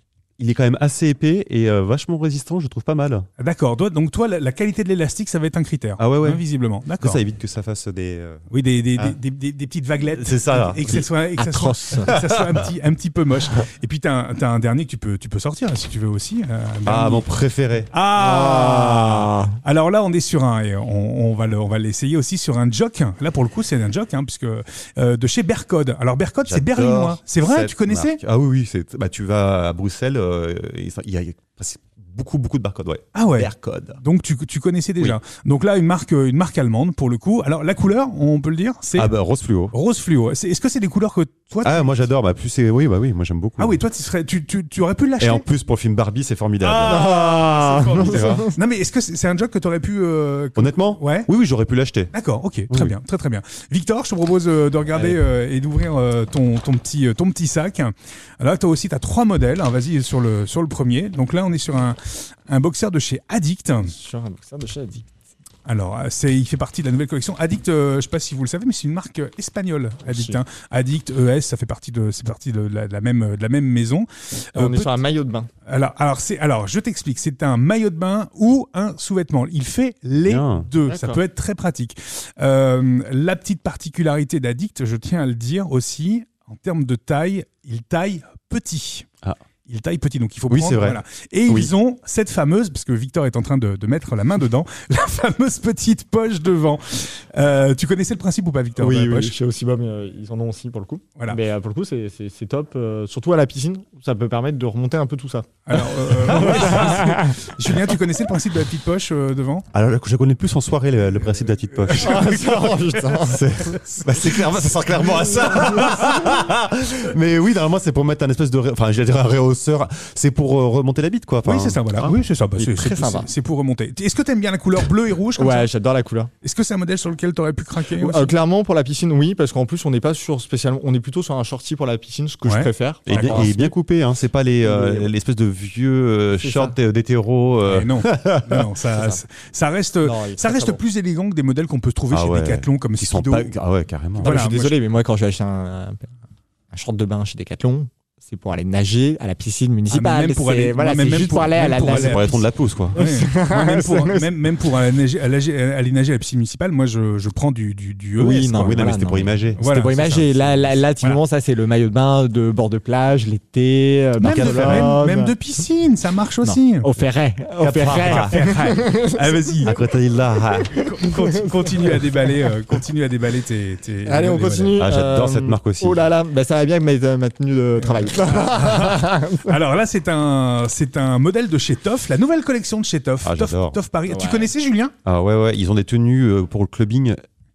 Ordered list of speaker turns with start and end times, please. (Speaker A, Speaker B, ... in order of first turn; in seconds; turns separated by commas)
Speaker A: 0.4-3.3, Speaker B: 3.4-7.2, Speaker A: 6.0-6.4, Speaker A: 7.0-9.2, Speaker B: 8.5-17.2, Speaker A: 10.1-11.0, Speaker C: 11.0-12.1, Speaker A: 16.9-17.9, Speaker B: 17.9-28.2, Speaker C: 18.2-19.6, Speaker A: 26.5-34.0, Speaker B: 33.1-33.5, Speaker B: 34.0-39.1, Speaker A: 38.9-39.7, Speaker B: 39.7-42.1, Speaker A: 41.6-43.8, Speaker B: 43.6-45.4, Speaker A: 45.2-47.1, Speaker B: 46.6-51.3, Speaker C: 46.9-48.6, Speaker A: 48.0-48.5, Speaker A: 50.6-52.1, Speaker B: 52.1-63.9, Speaker C: 54.9-55.2, Speaker C: 63.8-65.1, Speaker B: 65.7-75.0, Speaker C: 70.0-70.4, Speaker C: 74.5-75.5, Speaker B: 75.7-89.1, Speaker A: 80.2-80.7, Speaker C: 80.9-81.2, Speaker B: 89.7-99.3, Speaker A: 90.5-91.7, Speaker C: 98.8-107.4, Speaker B: 105.7-109.7, Speaker A: 106.3-106.8, Speaker A: 109.7-122.2, Speaker B: 111.8-112.8, Speaker C: 112.0-113.4, Speaker B: 121.5-125.7, Speaker C: 122.6-123.3, Speaker C: 125.4-126.3, Speaker B: 126.4-128.3, Speaker C: 128.0-133.5, Speaker B: 132.4-133.8, Speaker A: 133.1-139.2, Speaker C: 134.6-135.1, Speaker C: 136.4-136.8, Speaker B: 137.6-143.5, Speaker C: 140.0-140.8, Speaker A: 142.1-144.3, Speaker B: 144.2-144.8, Speaker C: 144.2-146.1, Speaker C: 146.7-154.3, Speaker B: 149.9-152.4, Speaker A: 151.8-153.0, Speaker B: 152.9-158.9, Speaker C: 158.2-165.3, Speaker A: 158.5-160.5, Speaker B: 159.6-160.5, Speaker B: 164.2-166.9, Speaker A: 164.2-165.0, Speaker C: 166.4-169.7, Speaker A: 167.6-168.5, Speaker B: 168.0-169.7, Speaker A: 169.7-170.8, Speaker C: 170.6-172.4, Speaker B: 170.8-174.8, Speaker C: 174.1-179.6, Speaker A: 174.8-176.0, Speaker B: 177.8-184.9, Speaker A: 183.2-183.8, Speaker C: 184.1-184.5, Speaker A: 185.1-187.2